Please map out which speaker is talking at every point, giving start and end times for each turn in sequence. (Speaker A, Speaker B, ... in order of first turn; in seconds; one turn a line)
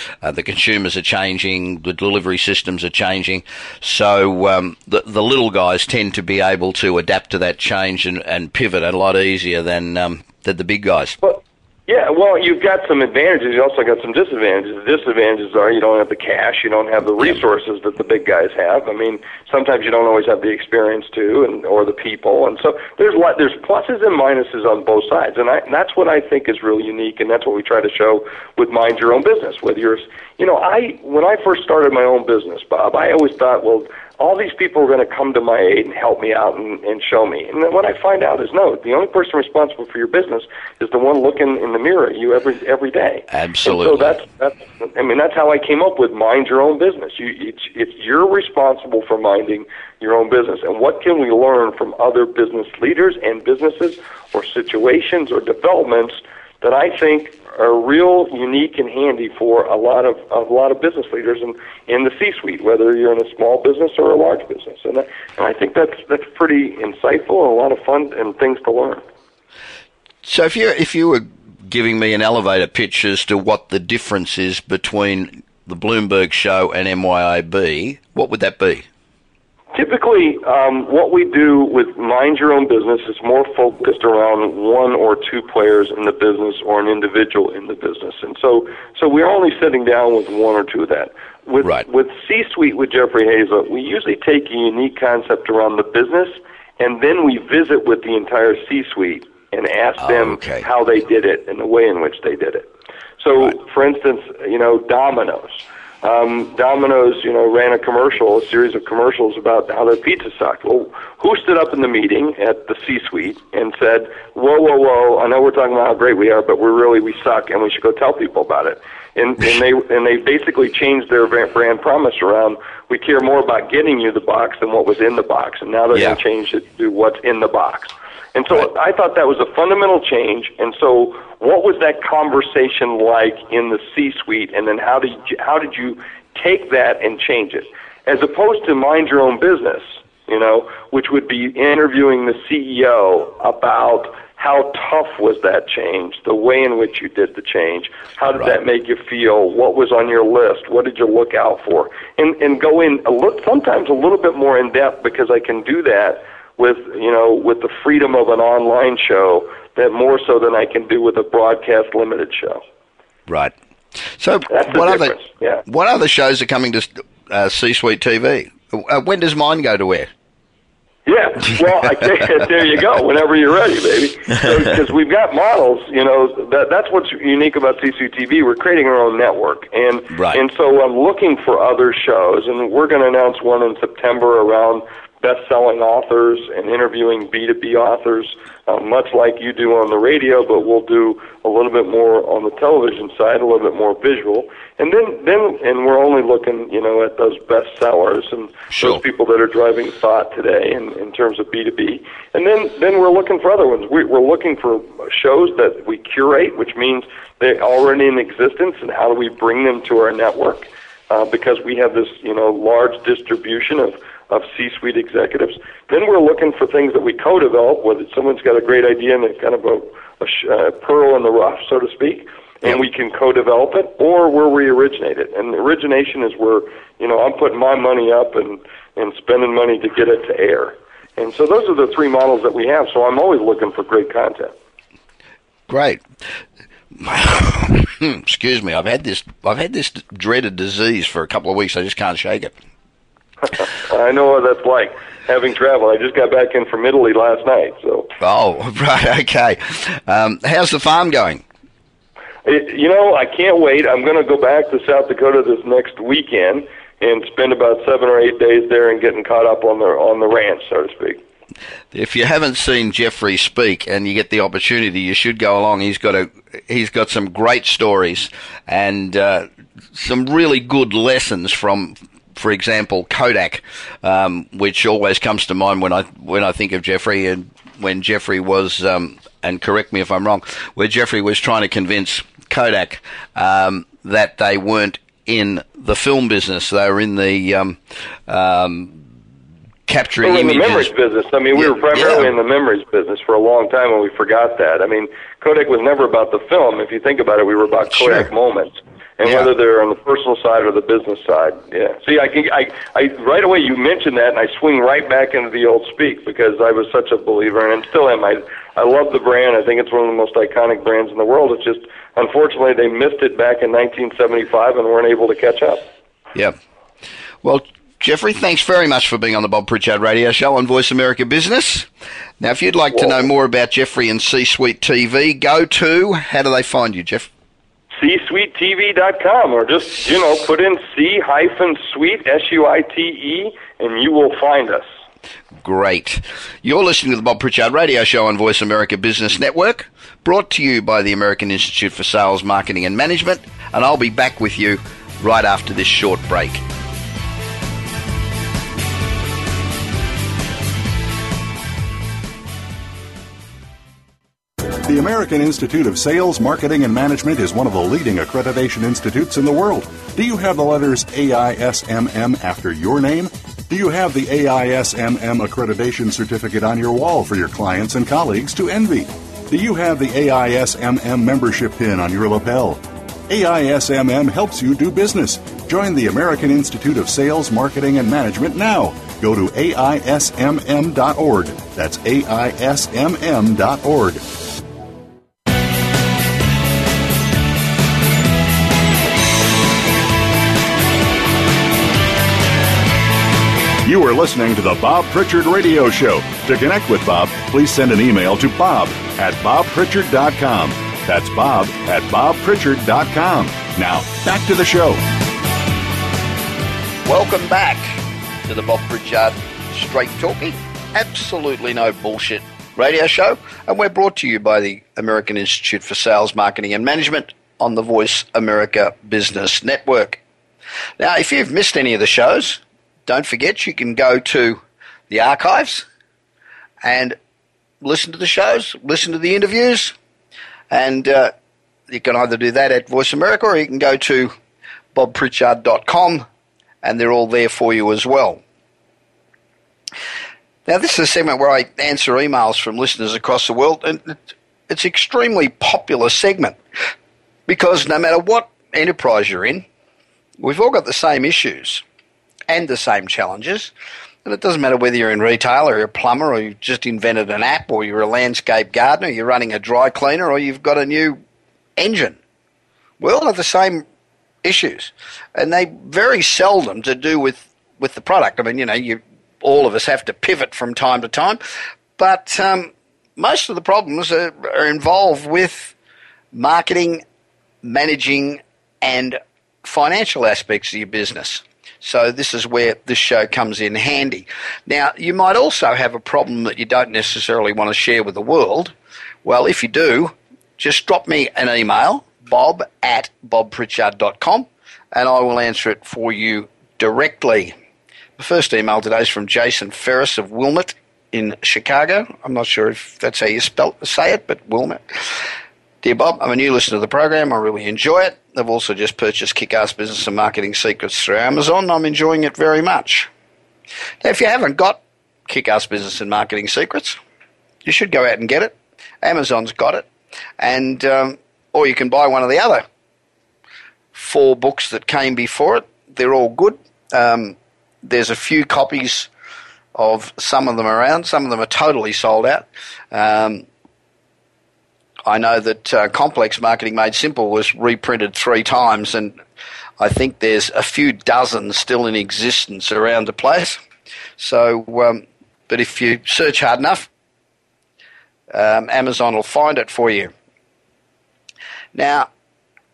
Speaker A: 0.2-11.2
Speaker B: 11.2-69.0
Speaker A: 43.3-44.2
Speaker A: 70.2-78.8
Speaker B: 79.7-102.7
Speaker A: 100.0-100.7
Speaker B: 103.2-162.6
Speaker A: 125.9-126.2
Speaker A: 163.3-163.5
Speaker A: 164.2-165.1
Speaker B: 164.5-165.6
Speaker A: 165.7-170.1
Speaker B: 171.1-234.5
Speaker A: 180.1-180.4
Speaker A: 198.7-199.0
Speaker A: 235.7-236.0
Speaker A: 236.9-242.5
Speaker B: 243.6-248.1
Speaker A: 248.2-251.4
Speaker B: 252.4-261.2
Speaker A: 261.9-289.0
Speaker A: 289.9-290.9
Speaker B: 290.2-315.9
Speaker A: 291.5-292.3
Speaker A: 298.0-298.3
Speaker A: 299.2-299.5
Speaker A: 317.4-321.9
Speaker A: 322.4-327.3
Speaker B: 328.0-334.9
Speaker A: 335.6-346.6
Speaker C: 354.8-384.2
Speaker C: 393.8-405.0
Speaker A: 407.0-420.2
Speaker A: 421.0-425.9
Speaker A: 426.8-427.1
Speaker A: 427.8-429.9
Speaker A: 430.7-431.3
Speaker A: 431.9-434.3
Speaker A: 434.9-436.2
Speaker A: 436.8-438.4
Speaker A: 440.6-446.6
Speaker A: 447.5-449.6
Speaker A: 450.4-451.8
Speaker A: 452.5-453.7
Speaker A: 454.2-461.2
Speaker A: 461.8-462.2
Speaker A: 463.0-463.8
Speaker A: 464.4-471.4
Speaker A: 472.0-475.7
Speaker A: 476.3-477.0
Speaker A: 477.6-497.5
Speaker A: 498.2-505.3
Speaker A: 505.8-513.1
Speaker A: 514.0-517.0
Speaker A: 517.6-519.9
Speaker A: 520.4-522.6
Speaker A: 523.9-529.1
Speaker A: 529.7-533.5
Speaker A: 535.0-539.2
Speaker A: 539.8-543.6
Speaker A: 544.2-546.9
Speaker A: 548.3-550.1
Speaker A: 551.7-552.1